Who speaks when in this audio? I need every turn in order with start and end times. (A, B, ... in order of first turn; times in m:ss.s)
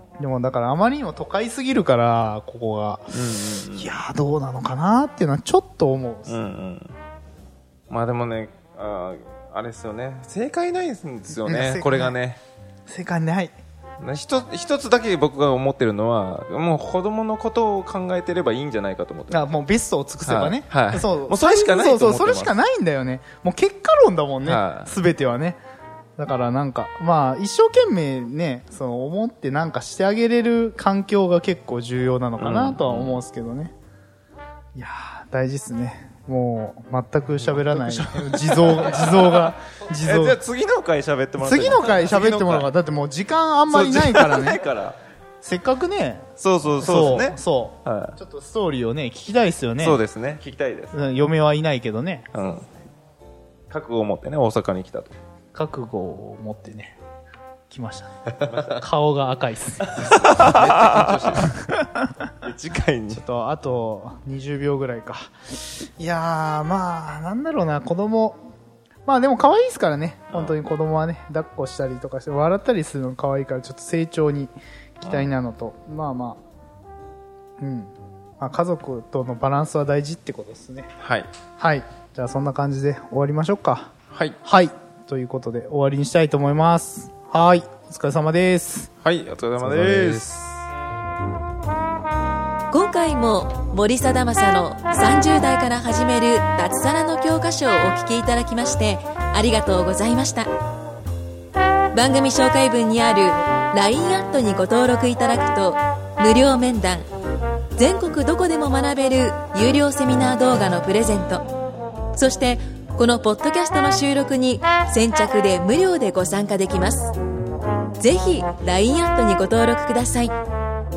0:00.2-0:03.2 A
0:03.1-0:04.0 B
0:03.7-0:06.4 A
0:06.3-0:07.0 B
0:07.9-0:12.4 B
0:11.4-0:12.2 A
0:12.9-0:13.6 A
0:14.0-0:19.4 B
0:19.3-0:25.6 A
0:20.2-0:22.6 B
0:24.4-0:24.9 B
0:26.2-0:33.8 A
0:32.4-0:33.2 B
0:34.8-0:40.4 A
0:37.4-0:42.7 B
0:41.4-0:44.6 A
0:43.7-0:45.0 B
0:45.4-0:50.0 A
0:46.4-0:48.2 B
0:49.8-0:51.0 B
0:50.9-0:52.2 A
0:52.3-0:52.7 B
0:53.7-0:55.1 B
0:55.5-0:57.0 A
0:57.7-1:01.8 A
0:58.4-0:58.8 B
0:59.9-1:01.6 B
1:02.4-1:03.2 B
1:03.1-1:08.4 A
1:09.1-1:16.4 A
1:10.3-1:10.6 B
1:15.0-1:15.3 B
1:17.6-1:20.9 A
1:21.0-1:21.3 B
1:21.6-1:23.9 A
1:24.1-1:24.4 B
1:24.4-1:28.9 A
1:29.0-1:30.7 B
1:29.6-1:30.3 A
1:32.7-1:40.5 C
1:41.9-1:47.0 C
1:47.8-1:51.4 C
1:52.1-1:57.1 C
1:58.0-2:00.3 C